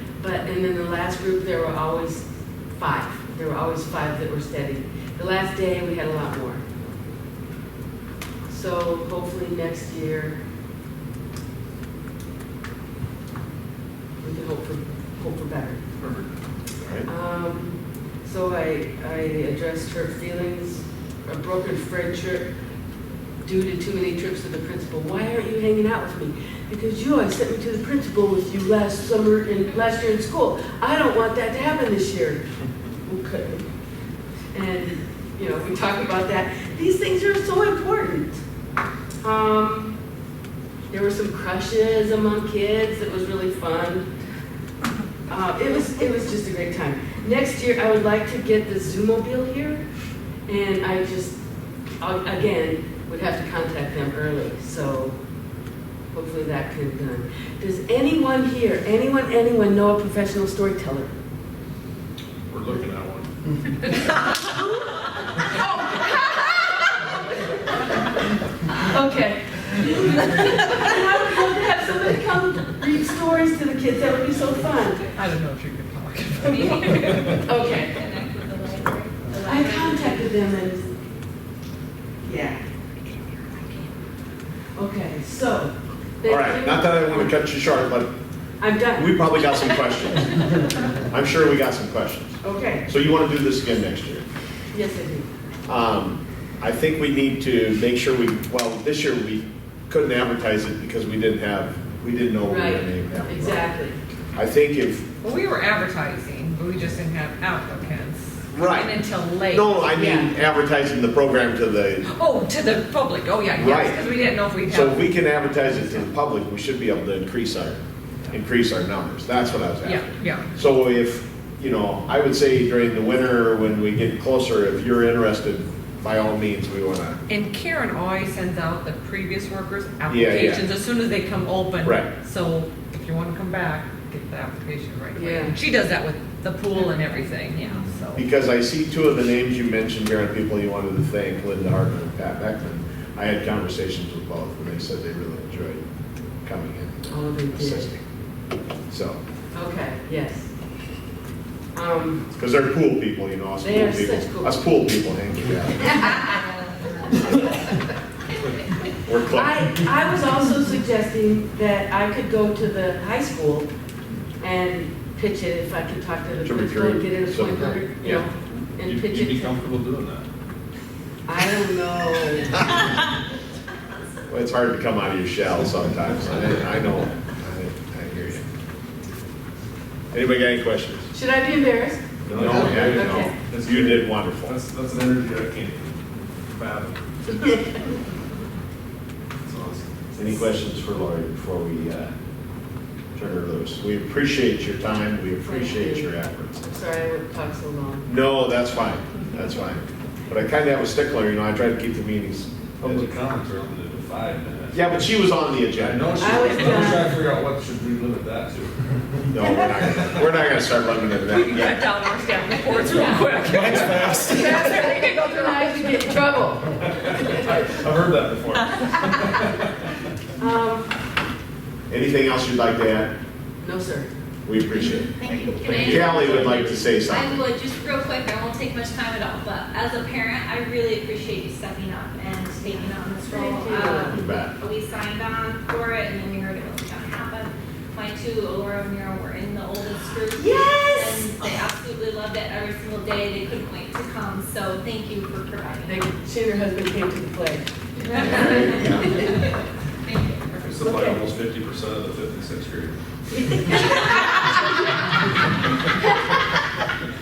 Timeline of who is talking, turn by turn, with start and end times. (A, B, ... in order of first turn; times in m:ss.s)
0:00.2-0:06.6 A
0:08.5-0:10.4 A
0:14.2-0:15.8 A
0:16.0-0:16.3 B
0:16.7-0:17.1 C
0:17.0-0:22.5 A
0:23.4-0:32.4 A
0:33.0-0:33.6 A
0:34.5-0:38.4 A
0:39.2-0:40.0 A
0:40.9-0:44.1 A
0:45.3-0:49.8 A
0:50.5-0:51.4 A
0:52.0-0:55.2 A
0:56.1-1:01.1 A
1:02.5-1:03.7 B
1:04.2-1:15.1 A
1:15.1-1:17.4 D
1:16.4-1:20.2 E
1:17.0-1:17.9 A
1:19.4-1:20.9 A
1:22.2-1:22.6 A
1:23.3-1:23.9 D
1:24.8-1:27.4 A
1:26.2-1:28.1 C
1:28.6-1:29.5 A
1:28.9-1:34.2 C
1:32.4-1:32.8 A
1:34.7-1:35.3 A
1:35.7-1:43.7 C
1:42.5-1:44.0 A
1:44.3-1:45.0 C
1:45.2-1:49.9 D
1:48.5-1:48.9 C
1:49.5-1:52.0 C
1:49.9-1:50.3 A
1:52.0-1:55.1 D
1:53.5-1:54.0 C
1:54.7-2:07.2 C
1:59.8-2:00.5 D
2:07.3-2:18.2 D
2:10.1-2:10.6 C
2:11.8-2:12.1 C
2:15.1-2:15.6 A
2:16.8-2:17.2 A
2:18.1-2:25.8 C
2:26.4-2:28.0 C
2:27.1-2:27.9 A
2:28.9-2:29.2 C
2:29.5-2:30.5 A
2:31.7-2:32.3 A
2:32.3-2:36.3 C
2:33.6-2:34.6 A
2:35.9-2:36.3 A
2:39.0-2:39.8 C
2:39.3-2:43.7 A
2:44.4-2:49.5 A
2:46.4-2:48.3 C
2:48.8-2:50.2 B
2:51.2-2:52.7 A
2:54.3-2:58.4 C
3:00.1-3:01.1 C
3:01.1-3:03.4 A
3:02.2-3:04.6 C
3:02.3-3:07.6 B
3:09.4-3:09.9 B
3:10.1-3:12.1 C
3:13.1-3:16.6 C
3:15.4-3:18.1 A
3:18.0-3:23.1 C
3:22.8-3:25.1 B
3:24.7-3:26.6 C
3:25.7-3:30.2 B
3:26.2-3:27.2 A
3:29.3-3:31.8 C
3:31.3-3:36.2 D
3:32.9-3:34.7 B
3:34.1-3:37.4 A
3:36.8-3:39.9 B
3:40.4-3:40.9 A
3:41.9-3:43.1 C
3:43.6-3:44.1 A
3:44.4-3:45.1 C
3:44.8-4:06.0 E
3:45.5-3:46.7 B
3:45.6-3:47.5 C
3:53.2-3:54.2 A
3:54.1-3:54.5 C
4:00.3-4:01.3 A
4:05.8-4:07.6 A
4:08.0-4:09.5 E
4:08.1-4:09.1 C
4:08.2-4:09.3 A
4:10.0-4:10.6 E
4:10.5-4:13.0 B
4:10.8-4:11.2 A
4:13.3-4:16.5 A